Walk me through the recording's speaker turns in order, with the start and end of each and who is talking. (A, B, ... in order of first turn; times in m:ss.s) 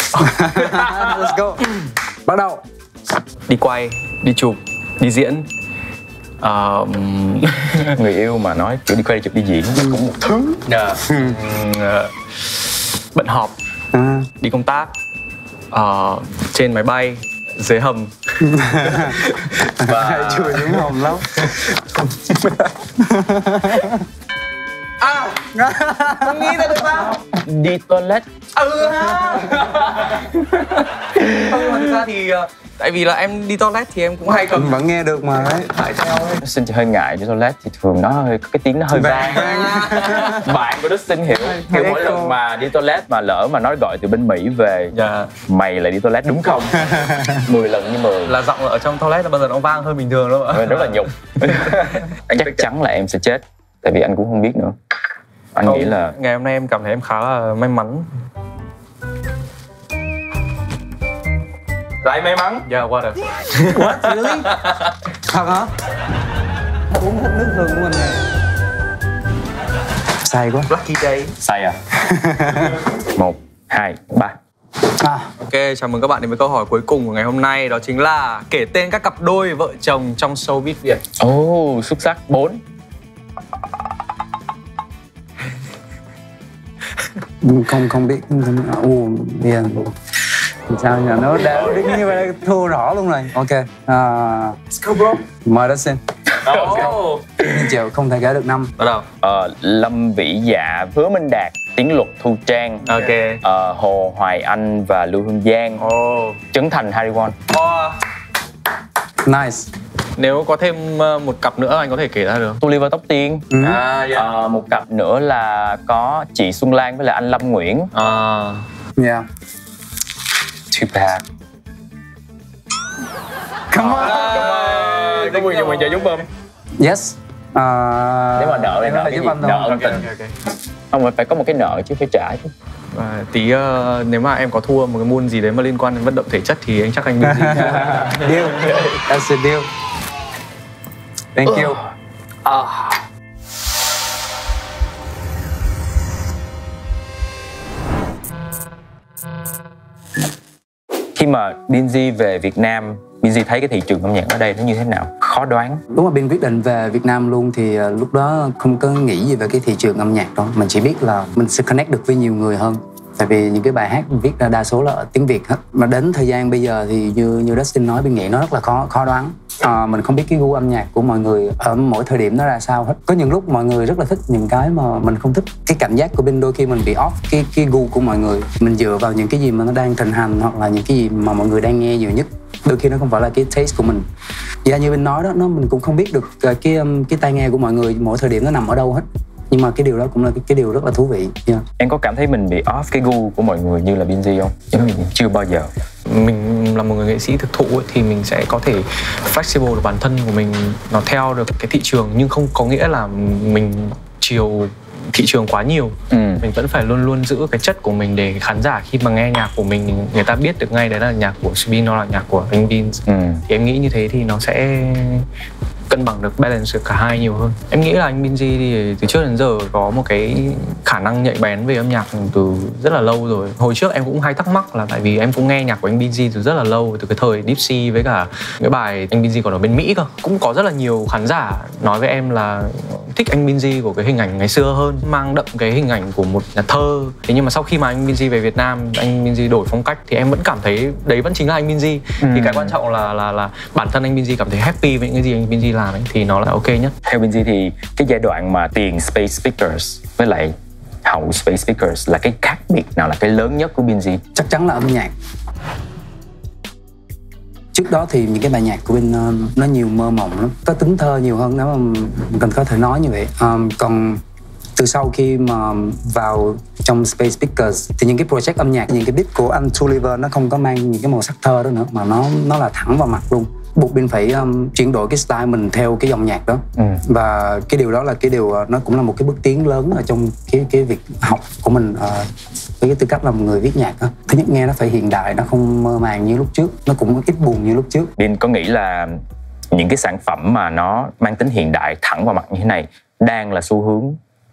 0:00.2-0:01.2 A
0:00.2-0:02.6 B
0:03.5-0:05.5 A
0:06.4-0:08.0 A
0:07.9-0:10.6 C
0:10.7-0:12.6 A
0:11.1-0:11.4 B
0:13.1-0:13.6 A
0:13.9-0:14.3 B
0:14.4-0:14.9 A
0:15.7-0:18.2 A
0:18.4-0:19.2 B
0:18.8-0:20.7 A
0:19.8-0:21.6 B
0:20.1-0:20.7 C
0:22.3-0:24.1 B
0:25.0-0:25.6 A
0:25.5-0:26.8 B
0:26.1-0:27.3 A
0:27.4-0:28.3 C
0:28.6-0:34.8 A
0:28.9-0:29.6 B
0:34.4-0:35.7 B
0:35.4-0:36.4 A
0:36.4-0:44.9 C
0:38.9-0:40.4 B
0:39.2-0:40.5 A
0:41.4-0:42.4 B
0:44.9-0:45.3 A
0:45.5-0:48.4 C
0:46.9-0:47.4 B
0:48.3-0:52.6 A
0:50.5-0:54.8 C
0:55.6-0:56.2 C
0:55.6-0:58.1 A
1:02.0-1:02.7 C
1:02.6-1:04.9 A
1:03.7-1:04.6 B
1:05.3-1:05.7 B
1:06.9-1:08.2 B
1:10.2-1:10.7 B
1:10.7-1:11.4 A
1:11.4-1:11.8 C
1:11.9-1:12.8 B
1:13.2-1:14.4 C
1:15.0-1:15.3 B
1:15.4-1:21.0 A
1:21.2-1:22.6 C
1:27.4-1:29.9 B
1:30.7-1:34.6 B
1:31.5-1:32.0 C
1:34.8-1:35.2 A
1:35.3-1:36.0 B
1:36.4-1:37.1 C
1:36.4-1:37.4 A
1:37.4-1:38.7 B
1:38.8-1:39.1 A
1:39.2-1:45.8 C
1:42.9-1:43.4 A
1:45.8-1:46.4 A
1:46.5-1:47.4 C
1:47.5-1:48.0 A
1:49.2-1:49.7 B
1:50.2-1:52.6 A
1:52.6-1:57.9 C
1:53.5-1:53.8 B
1:53.6-1:54.3 A
1:57.9-1:58.7 A
1:59.0-1:59.3 B
2:00.7-2:01.2 C
2:03.7-2:04.3 B
2:03.8-2:06.2 C
2:03.8-2:06.2 A
2:06.8-2:09.8 B
2:08.4-2:10.1 C
2:09.6-2:10.4 A
2:10.9-2:12.5 C
2:12.9-2:18.3 A
2:17.2-2:19.7 B
2:18.7-2:19.0 C
2:21.4-2:21.8 B
2:22.5-2:23.0 A
2:31.2-2:35.8 C
2:35.9-3:04.1 B
3:04.6-3:11.6 B
3:11.8-3:15.7 C
3:16.1-3:35.3 A
3:26.1-3:26.4 C
3:33.1-3:33.4 C
3:35.9-4:07.0 A
4:02.2-4:02.8 C
4:07.0-4:14.2 C
4:14.4-4:15.1 B
4:17.7-4:24.2 B
4:24.8-4:48.1 B
4:36.8-4:37.0 C
4:48.2-4:54.2 C